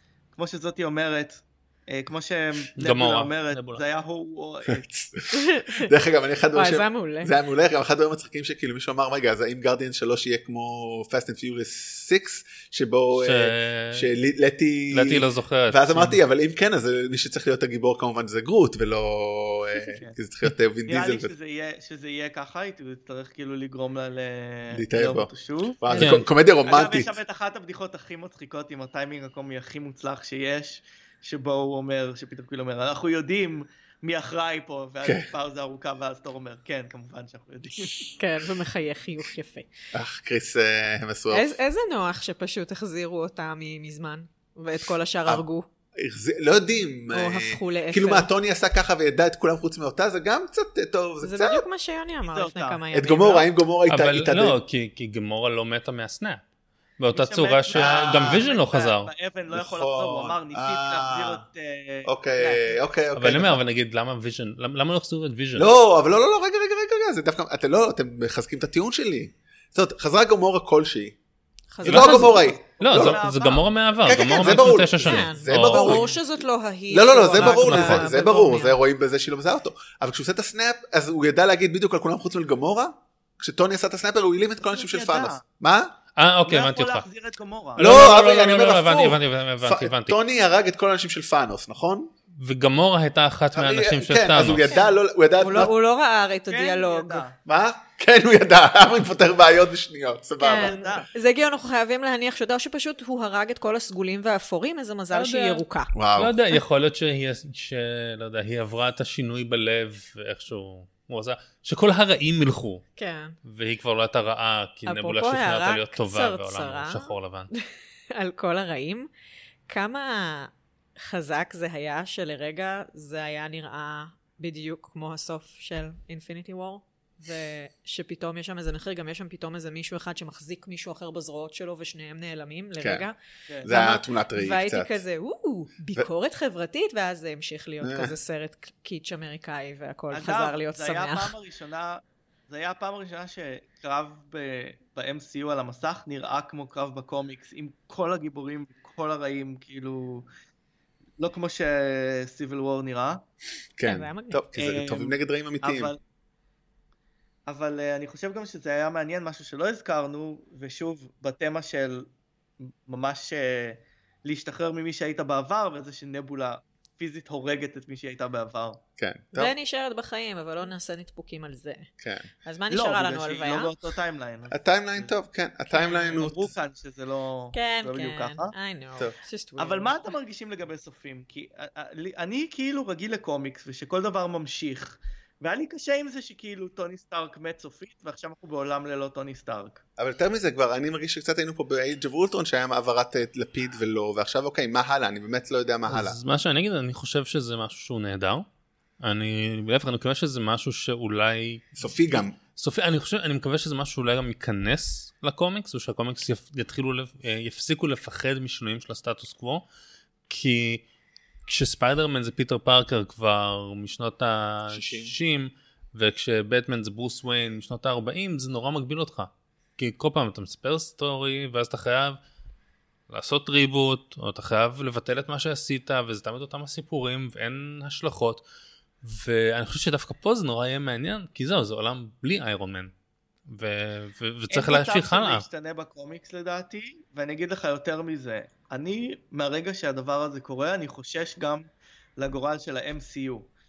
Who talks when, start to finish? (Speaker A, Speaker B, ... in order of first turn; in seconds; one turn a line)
Speaker A: 0.3-4.8
Speaker B: 2.8-3.8
Speaker C: 4.7-21.3
Speaker D: 5.3-5.9
Speaker D: 6.5-7.3
Speaker B: 13.1-14.1
Speaker B: 14.9-16.2
Speaker A: 19.7-20.1
Speaker A: 20.9-25.8
Speaker C: 24.7-25.3
Speaker C: 25.8-27.2
Speaker D: 25.9-26.2
Speaker B: 25.9-26.3
Speaker A: 26.6-38.1
Speaker C: 35.0-35.3
Speaker D: 38.2-39.7
Speaker C: 39.9-41.5
Speaker D: 41.3-45.6
Speaker C: 46.0-51.6
Speaker D: 47.1-48.3
Speaker D: 51.2-53.5
Speaker A: 52.2-52.8
Speaker C: 52.9-54.6
Speaker B: 53.9-56.4
Speaker B: 57.0-59.1
Speaker A: 57.1-62.8
Speaker C: 57.7-58.4
Speaker C: 59.5-61.4
Speaker C: 62.0-63.6
Speaker B: 63.1-65.7
Speaker C: 65.5-71.2
Speaker D: 71.7-72.5
Speaker C: 71.8-73.2
Speaker B: 71.9-72.3
Speaker A: 71.9-74.6
Speaker B: 72.8-76.1
Speaker C: 74.0-76.1
Speaker D: 75.0-78.8
Speaker C: 76.9-85.9
Speaker B: 77.3-78.2
Speaker A: 84.6-85.4
Speaker B: 86.2-87.0
Speaker A: 86.4-87.9
Speaker B: 87.8-90.2
Speaker C: 87.8-92.1
Speaker B: 92.4-94.7
Speaker C: 93.5-95.7
Speaker D: 94.6-97.2
Speaker A: 96.5-97.4
Speaker C: 97.5-100.8
Speaker D: 100.4-105.9
Speaker A: 100.5-101.1
Speaker B: 105.1-105.6
Speaker C: 105.9-106.4
Speaker B: 106.2-112.8
Speaker D: 113.0-113.4
Speaker B: 113.4-117.5
Speaker D: 114.8-119.1
Speaker D: 119.7-141.3
Speaker C: 132.8-133.1
Speaker C: 133.6-135.0
Speaker C: 137.8-138.1
Speaker A: 140.1-150.3
Speaker A: 151.2-153.2
Speaker C: 153.8-155.9
Speaker D: 153.8-154.4
Speaker A: 154.5-156.0
Speaker A: 157.5-162.1
Speaker A: 162.6-168.8
Speaker C: 169.0-169.5
Speaker D: 169.3-171.9
Speaker C: 172.0-172.3
Speaker D: 172.4-173.7
Speaker A: 172.7-175.1
Speaker C: 174.5-176.6
Speaker D: 175.7-176.2
Speaker A: 176.0-178.5
Speaker D: 177.5-179.9
Speaker A: 179.6-189.8
Speaker C: 190.0-196.2
Speaker B: 195.9-198.4
Speaker B: 199.0-209.6
Speaker C: 201.8-202.4
Speaker B: 210.3-210.8
Speaker B: 211.4-222.2
Speaker C: 214.7-215.1
Speaker B: 223.1-228.4
Speaker B: 229.0-232.9
Speaker B: 233.5-235.4
Speaker A: 234.5-243.5